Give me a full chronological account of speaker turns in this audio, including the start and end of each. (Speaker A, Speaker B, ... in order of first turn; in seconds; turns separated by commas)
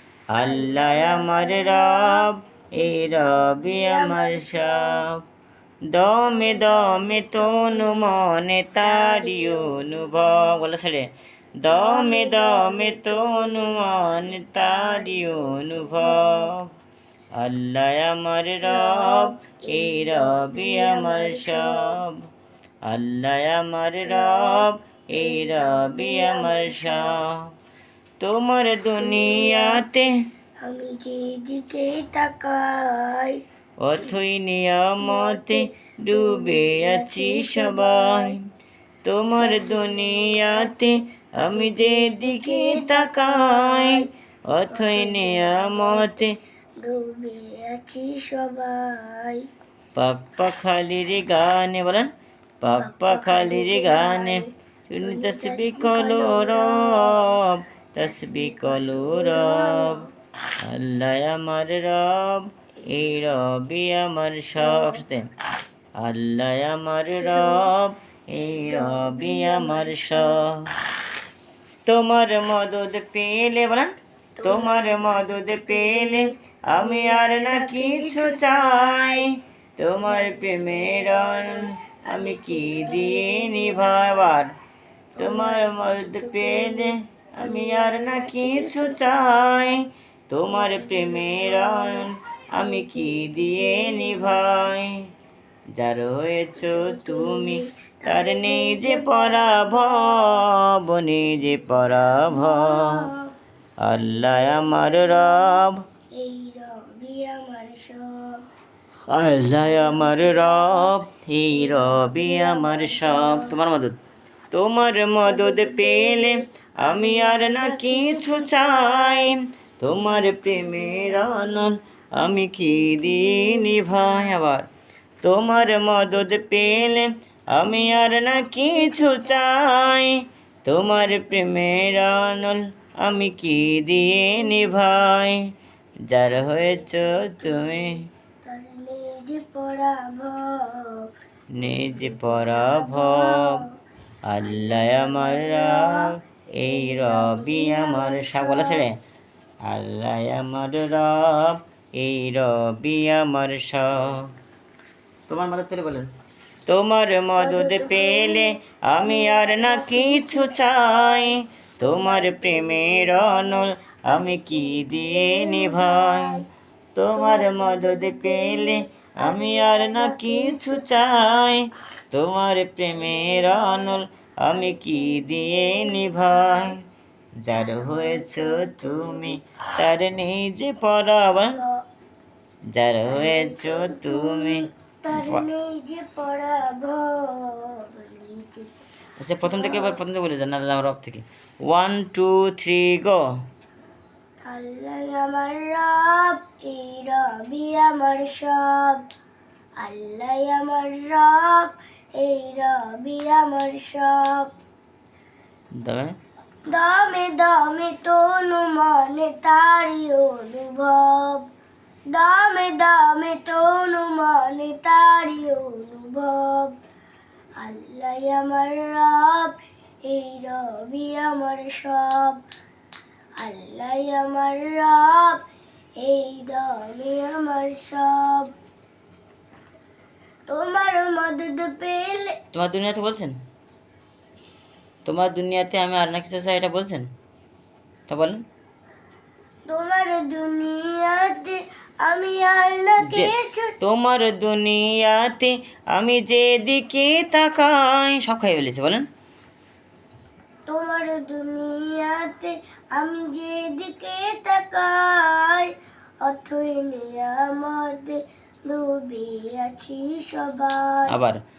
Speaker A: 0.3-5.2, Speaker B: 0.4-5.0, Speaker A: 5.9-16.7, Speaker B: 6.2-8.2, Speaker B: 8.8-10.2, Speaker B: 11.7-16.5, Speaker A: 17.3-22.2, Speaker B: 18.6-21.9, Speaker A: 22.8-27.5, Speaker B: 24.0-27.2, Speaker A: 28.2-30.1, Speaker B: 29.0-29.8, Speaker B: 30.6-33.4, Speaker A: 33.8-38.4, Speaker B: 35.0-38.4, Speaker A: 39.0-46.3, Speaker B: 39.4-40.8, Speaker B: 41.4-44.1, Speaker B: 44.7-49.5, Speaker A: 49.9-60.0, Speaker B: 52.8-57.4, Speaker B: 58.0-60.1, Speaker A: 60.6-65.3, Speaker B: 62.9-63.2, Speaker B: 64.6-65.0, Speaker A: 66.0-70.7, Speaker B: 67.2-67.7, Speaker B: 68.6-70.5, Speaker A: 71.8-84.5, Speaker B: 74.4-79.1, Speaker B: 80.1-84.2, Speaker B: 85.2-89.1, Speaker A: 85.2-95.0, Speaker B: 90.5-94.7, Speaker A: 95.7-103.1, Speaker B: 96.5-100.5, Speaker B: 102.2-103.3, Speaker A: 103.8-105.8, Speaker B: 104.1-105.6, Speaker B: 106.2-108.4, Speaker A: 109.1-114.0, Speaker B: 109.6-111.0, Speaker B: 111.6-113.6, Speaker A: 114.5-124.7, Speaker B: 115.2-119.3, Speaker B: 120.5-121.4, Speaker B: 123.0-124.2, Speaker A: 125.2-135.4, Speaker B: 128.9-129.2, Speaker A: 136.1-138.1, Speaker B: 136.4-143.7, Speaker A: 141.5-143.6, Speaker A: 144.2-148.9, Speaker B: 144.4-148.8, Speaker A: 149.6-154.3, Speaker A: 155.3-156.1, Speaker A: 156.7-166.3, Speaker B: 157.4-166.4, Speaker A: 166.9-176.8, Speaker B: 167.1-171.3, Speaker B: 172.9-176.7, Speaker A: 177.4-181.6, Speaker B: 177.5-179.3, Speaker B: 181.3-181.8, Speaker A: 182.7-185.4, Speaker B: 183.0-188.8, Speaker A: 189.2-193.3, Speaker B: 189.4-190.0, Speaker B: 194.4-199.1, Speaker B: 199.8-204.5, Speaker A: 205.8-206.2, Speaker B: 206.7-211.5, Speaker B: 212.1-216.8, Speaker B: 217.6-222.4, Speaker B: 223.4-225.4, Speaker B: 226.0-228.5, Speaker B: 230.5-232.4, Speaker A: 232.5-233.4, Speaker A: 235.0-237.1, Speaker A: 238.1-238.4, Speaker B: 239.7-243.7, Speaker A: 243.0-249.1, Speaker B: 250.7-261.2, Speaker A: 261.1-261.4